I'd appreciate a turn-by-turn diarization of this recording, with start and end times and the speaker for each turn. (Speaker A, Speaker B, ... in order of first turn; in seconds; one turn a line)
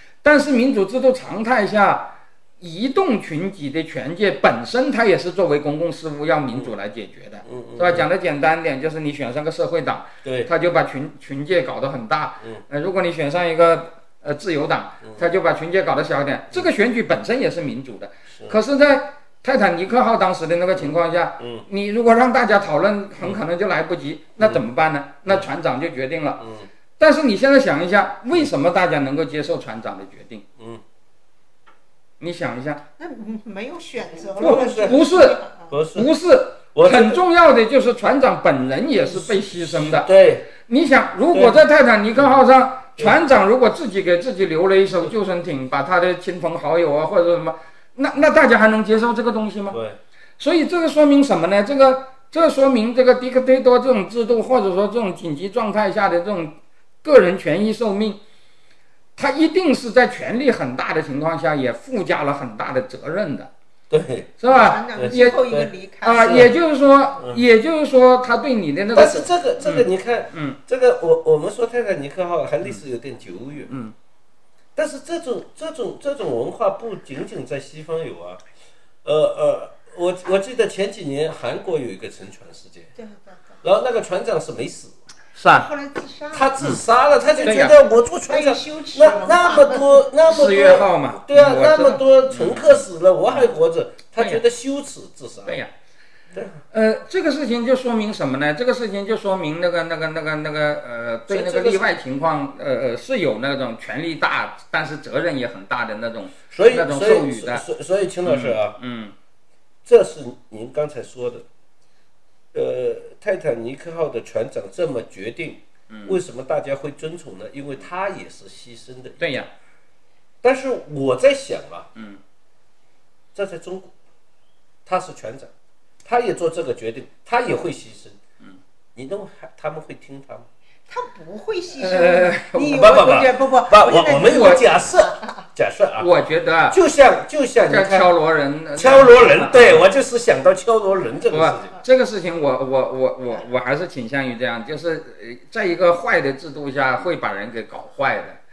Speaker A: 0.2-26.4
Speaker B: 7.4-8.1
Speaker B: 10.2-10.5
Speaker B: 18.3-18.6
Speaker B: 21.4-21.6
Speaker B: 26.4-26.7
Speaker A: 27.0-30.4
Speaker A: 32.2-32.8
Speaker C: 33.0-35.7
Speaker B: 34.4-35.0
Speaker A: 34.4-35.4
Speaker B: 35.7-36.1
Speaker A: 35.9-49.8
Speaker B: 36.7-37.2
Speaker B: 39.1-40.5
Speaker B: 41.3-41.6
Speaker B: 49.7-50.0
Speaker A: 50.4-58.2
Speaker A: 59.1-63.5
Speaker B: 63.9-64.4
Speaker A: 64.4-65.5
Speaker C: 64.5-66.4
Speaker B: 64.9-66.5
Speaker A: 66.0-70.6
Speaker B: 68.9-73.7
Speaker A: 73.7-73.9
Speaker B: 74.8-78.4
Speaker B: 79.0-82.9
Speaker C: 83.0-83.6
Speaker B: 83.6-85.0
Speaker A: 85.3-85.7
Speaker C: 85.5-86.6
Speaker B: 86.3-95.6
Speaker A: 87.4-87.8
Speaker C: 88.3-90.0
Speaker A: 90.3-93.5
Speaker A: 94.2-94.4
Speaker A: 95.5-95.7
Speaker B: 96.3-96.6
Speaker A: 96.7-107.6
Speaker B: 101.3-101.8
Speaker B: 106.5-108.8
Speaker A: 108.2-109.1
Speaker B: 109.8-111.4
Speaker B: 112.5-119.3
Speaker A: 115.9-116.2
Speaker A: 119.2-119.5
Speaker B: 120.4-121.9
Speaker A: 122.0-122.2
Speaker B: 123.3-123.9
Speaker B: 124.8-125.5
Speaker B: 126.0-128.2
Speaker B: 128.9-130.4
Speaker C: 130.9-135.4
Speaker A: 131.8-133.2
Speaker B: 132.7-136.1
Speaker A: 134.2-134.6
Speaker A: 136.0-136.8
Speaker B: 136.7-138.1
Speaker A: 137.6-139.8
Speaker B: 138.8-141.8
Speaker A: 141.3-148.4